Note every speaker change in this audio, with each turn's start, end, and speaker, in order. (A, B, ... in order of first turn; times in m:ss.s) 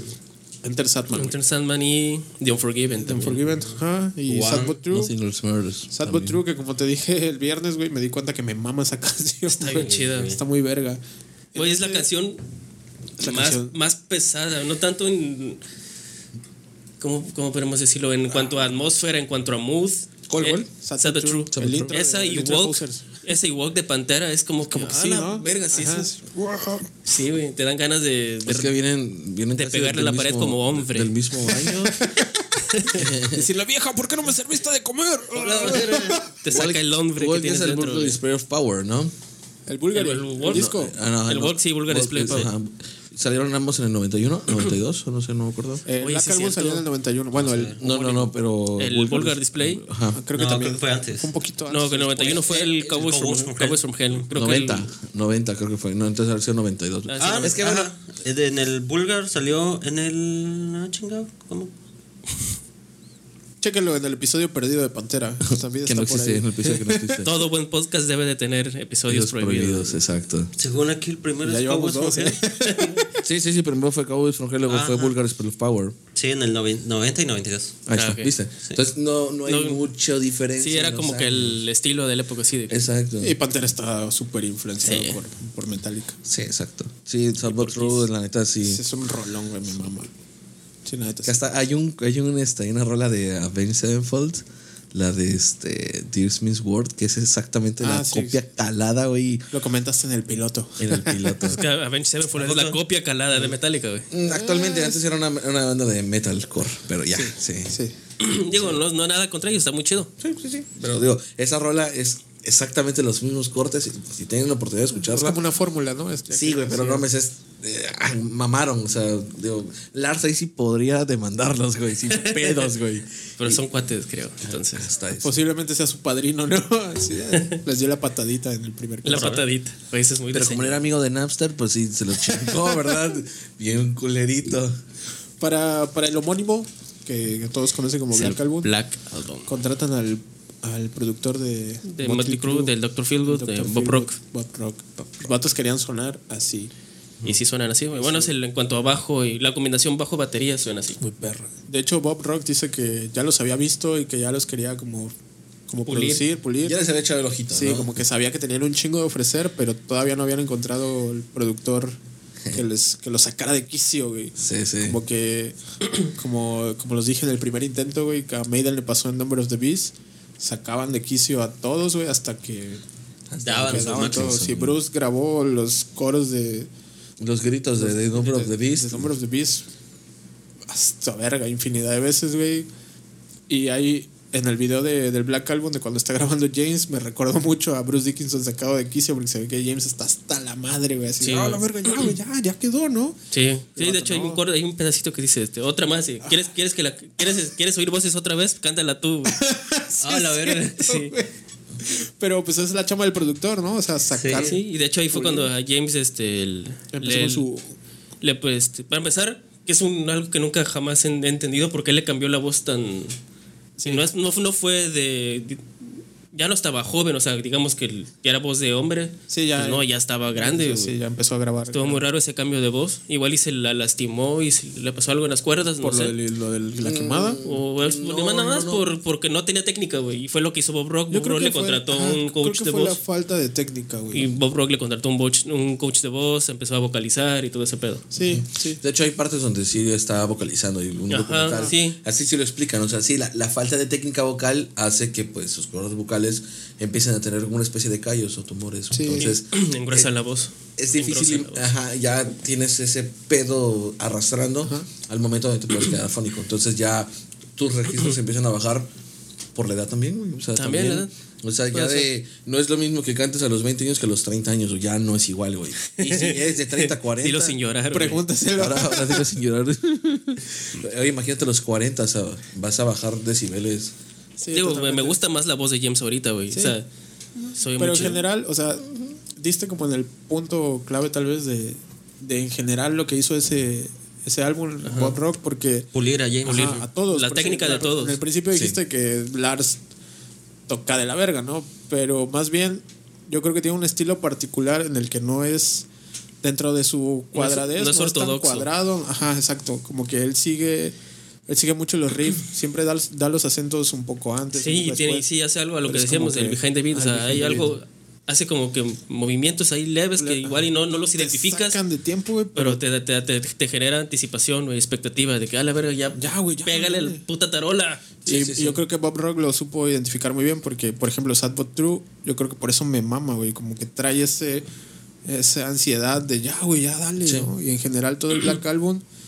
0:00.6-0:01.4 A
0:01.1-0:03.4 B
0:03.0-0:05.1 A
0:04.3-0:04.8 C
0:04.9-0:06.4 D
0:05.9-0:11.0 A
0:09.5-0:10.4 B
0:09.7-0:10.4 C
0:11.5-0:12.1 A
0:11.6-0:12.4 B
0:13.2-0:13.8 A
0:13.2-0:15.6 B
0:17.0-0:26.0 B
0:20.3-0:20.7 D
0:20.7-0:23.0 A
0:21.5-0:22.0 D
0:24.7-0:26.9 A
0:25.4-0:26.1 D
0:27.0-0:28.7 B
0:28.5-0:32.0 D
0:29.5-0:31.8 B
0:31.4-0:32.5 A
0:32.6-0:33.0 B
0:32.9-0:33.5 D
0:33.3-0:36.4 A
0:35.3-0:36.3 C
0:36.4-0:38.2 B
0:36.5-0:39.1 D
0:39.7-0:41.0 A
0:39.9-0:40.7 B
0:40.5-0:45.8 D
0:41.3-0:42.5 B
0:45.8-0:47.8 A
0:46.0-0:46.8 B
0:47.3-0:47.8 C
0:47.8-0:50.2 D
0:47.8-0:49.9 B
0:50.1-0:52.4 A
0:50.3-0:51.3 C
0:51.7-0:54.9 B
0:52.3-0:54.2 C
0:54.3-0:57.9 D
0:57.1-0:57.6 B
0:57.2-1:01.7 C
1:03.6-1:07.2 A
1:05.8-1:07.3 D
1:07.2-1:10.0 B
1:09.1-1:10.5 D
1:10.6-1:12.4 C
1:11.4-1:13.1 A
1:12.7-1:13.0 B
1:13.2-1:16.0 D
1:14.7-1:15.2 C
1:16.2-1:17.8 C
1:17.9-1:21.6 D
1:17.9-1:18.3 B
1:19.5-1:19.8 B
1:20.6-1:22.8 B
1:22.7-1:23.4 D
1:23.2-1:26.2 A
1:24.8-1:25.2 B
1:26.2-1:28.8 D
1:27.4-1:28.1 B
1:28.6-1:30.1 A
1:30.8-1:31.4 A
1:31.2-1:39.5 D
1:37.8-1:38.4 A
1:39.5-1:41.5 A
1:40.8-1:41.6 D
1:41.5-1:44.1 B
1:42.3-1:42.8 C
1:44.1-1:47.8 D
1:44.3-1:45.0 A
1:47.1-1:48.0 A
1:48.2-1:50.1 B
1:50.2-1:55.4 D
1:55.0-1:57.0 A
1:56.3-2:03.6 D
2:02.1-2:02.6 B
2:03.4-2:04.9 B
2:04.4-2:05.4 D
2:05.2-2:09.4 A
2:09.0-2:10.9 B
2:09.1-2:09.4 C
2:10.3-2:14.8 D
2:15.4-2:18.7 A
2:18.1-2:19.5 B
2:19.5-2:26.7 A
2:21.8-2:24.1 B
2:27.2-2:31.0 B
2:31.0-2:35.1 A
2:35.7-2:36.8 A
2:35.8-2:36.2 B
2:36.6-2:37.9 D
2:37.5-2:42.0 A
2:42.5-2:52.8 A
2:44.4-2:45.0 D
2:53.3-2:54.8 D
2:53.4-2:54.4 C
2:53.6-2:56.7 A
2:57.2-2:59.1 D
2:57.8-2:59.7 A
3:00.7-3:02.7 A
3:03.5-3:13.2 A
3:11.2-3:12.1 B
3:13.3-3:19.4 B
3:13.8-3:14.4 A
3:16.2-3:16.5 A
3:19.3-3:21.3 A
3:20.0-3:20.7 C
3:20.6-3:21.1 B
3:21.8-3:24.6 A
3:24.1-3:24.6 C
3:24.3-3:27.5 B
3:25.1-3:25.5 A
3:26.9-3:27.7 A
3:28.2-3:33.2 B
3:33.8-3:34.1 A
3:33.9-3:35.6 B
3:36.3-3:41.0 B
3:39.3-3:42.0 A
3:41.7-3:46.2 B
3:45.8-3:47.4 A
3:46.8-3:48.9 D
3:47.4-3:53.0 B
3:51.1-3:54.3 A
3:54.1-3:58.0 B
3:58.1-3:58.8 A
3:58.2-4:10.1 D
4:01.1-4:02.0 B
4:08.9-4:09.3 A
4:09.1-4:11.7 B
4:10.8-4:18.9 D
4:19.6-4:27.6 D
4:20.6-4:21.1 B
4:21.7-4:22.1 B
4:26.0-4:28.2 B
4:27.9-4:29.3 A
4:28.6-4:33.9 D
4:34.4-4:35.2 A
4:34.5-4:36.9 B
4:36.5-4:36.8 A
4:37.4-4:45.9 A
4:37.6-4:38.3 B
4:44.8-4:45.2 B
4:45.9-4:46.9 C
4:46.4-4:49.8 A
4:46.5-4:48.2 B
4:48.5-4:48.8 D
4:50.7-4:55.9 A
4:56.4-5:01.0 A
4:57.3-4:58.7 B
5:01.5-5:05.3 A
5:04.5-5:11.8 B
5:05.8-5:07.8 A
5:10.2-5:12.8 A
5:12.6-5:18.2 B
5:16.2-5:17.2 A
5:18.3-5:18.8 D
5:18.3-5:24.7 A
5:25.2-5:29.0 A
5:27.2-5:27.5 D